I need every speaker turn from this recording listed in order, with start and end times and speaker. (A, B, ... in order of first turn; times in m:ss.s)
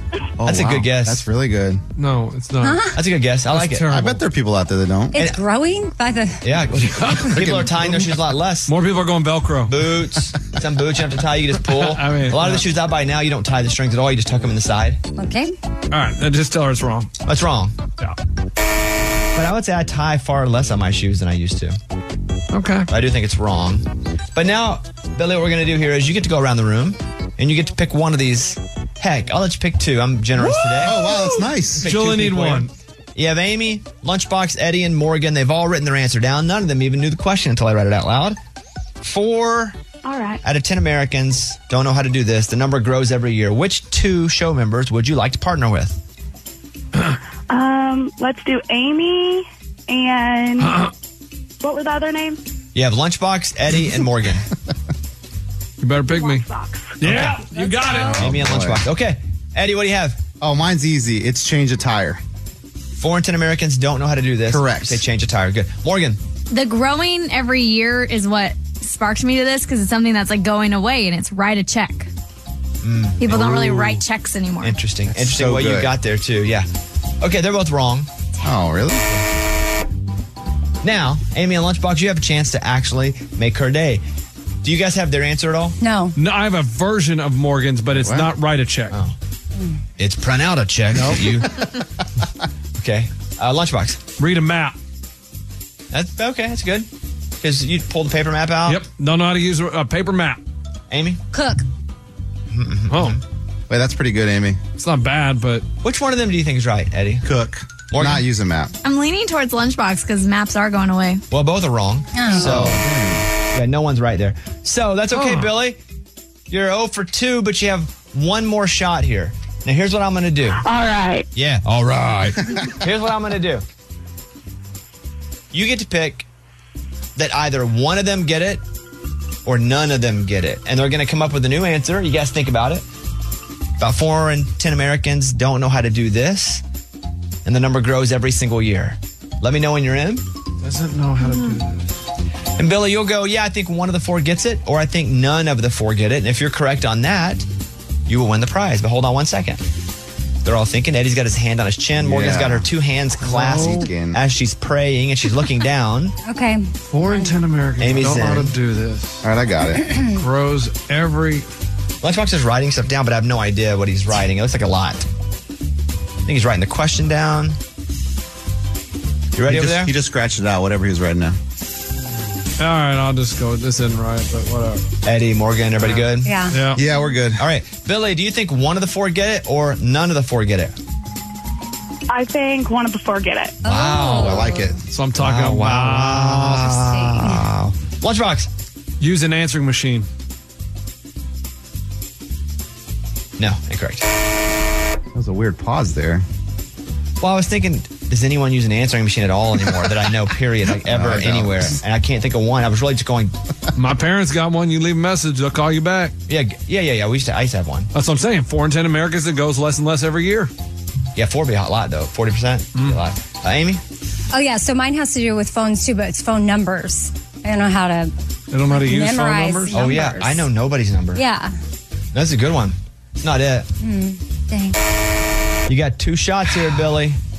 0:00.4-0:01.8 A
0:00.4-0:01.2 B
0:02.0-0:02.9 C
0:02.6-0:03.0 D
0:02.9-0:03.9 B
0:03.5-0:04.2 C
0:03.9-0:05.1 A
0:05.1-0:06.4 D
0:05.1-0:05.4 B
0:06.4-0:08.7 B
0:07.0-0:07.3 C
0:07.3-0:08.0 A
0:08.7-0:09.8 C
0:09.7-0:15.0 B
0:11.7-0:12.6 C
0:15.2-0:15.5 D
0:15.9-0:17.1 C
0:17.2-0:17.8 B
0:19.3-0:21.8 B
0:22.5-0:22.9 C
0:22.9-0:31.1 B
0:30.4-0:32.7 C
0:30.8-0:32.0 A
0:31.8-0:38.4 B
0:39.0-0:39.8 B
0:40.0-0:40.4 E
0:40.4-0:46.0 B
0:47.5-0:50.8 E
0:50.6-0:50.9 C
0:51.6-0:52.4 E
0:52.7-0:54.4 B
0:55.8-0:56.4 C
0:56.1-0:57.0 E
0:57.0-0:58.3 C
0:57.1-0:57.4 B
0:57.5-0:58.3 D
0:58.2-1:00.2 B
0:58.2-0:58.8 A
1:00.4-1:02.2 A
1:03.0-1:06.2 B
1:04.5-1:05.0 A
1:06.5-1:12.1 F
1:12.8-1:13.9 B
1:13.2-1:14.8 F
1:14.6-1:16.7 B
1:15.1-1:15.9 A
1:17.2-1:18.1 B
1:18.4-1:19.1 A
1:20.8-1:24.0 B
1:24.6-1:25.8 B
1:25.8-1:26.2 D
1:26.2-1:29.0 C
1:27.9-1:28.3 A
1:30.0-1:31.6 B
1:30.9-1:31.3 C
1:32.8-1:34.0 B
1:34.2-1:34.8 C
1:35.9-1:36.9 B
1:37.4-1:38.8 B
1:38.6-1:40.4 C
1:40.9-1:41.2 B
1:41.3-1:41.6 D
1:42.5-1:43.2 B
1:42.9-1:43.2 C
1:43.7-1:44.6 A
1:44.7-1:45.6 C
1:45.8-1:47.3 B
1:47.2-1:48.7 A
1:47.9-1:48.2 B
1:48.8-1:51.2 F
1:51.3-1:52.8 B
1:52.1-1:52.6 D
1:52.3-1:53.3 A
1:53.5-1:55.8 B
1:55.1-1:55.5 C
1:56.5-2:00.6 B
2:00.6-2:01.3 E
2:01.3-2:03.6 B
2:05.5-2:06.3 B
2:07.2-2:08.6 B
2:09.4-2:12.8 B
2:13.8-2:16.6 B
2:17.4-2:20.2 B
2:20.6-2:21.8 C
2:22.6-2:27.4 B
2:28.1-2:29.6 B
2:30.4-2:36.2 B
2:32.0-2:32.6 A
2:33.2-2:33.8 C
2:33.6-2:34.2 A
2:36.2-2:37.4 D
2:36.9-2:39.3 C
2:37.8-2:38.5 B
2:39.2-2:39.9 A
2:39.8-2:40.1 D
2:40.0-2:41.4 C
2:42.0-2:45.0 B
2:46.2-2:47.6 B
2:49.4-2:49.9 B
2:49.5-2:51.4 A
2:52.6-2:54.8 C
2:55.0-2:56.4 B
2:55.8-2:56.8 C
2:56.2-2:56.6 D
2:56.7-2:57.4 A
2:57.4-3:00.7 B
3:02.1-3:03.6 E
3:03.6-3:04.7 D
3:03.6-3:08.5 B
3:04.1-3:04.7 A
3:04.9-3:06.6 C
3:06.6-3:07.4 D
3:09.0-3:10.1 C
3:13.4-3:14.0 B
3:15.1-3:16.2 A
3:17.2-3:23.4 B
3:20.8-3:21.7 A
3:23.7-3:26.1 C
3:26.3-3:27.9 B
3:27.9-3:30.5 C
3:31.1-3:33.8 B
3:32.8-3:33.0 C
3:34.3-3:38.1 D
3:38.5-3:39.8 C
3:38.7-3:40.5 D
3:39.7-3:41.2 B
3:41.1-3:41.5 D
3:42.1-3:43.7 B
3:43.8-3:44.8 D
3:45.7-3:47.2 B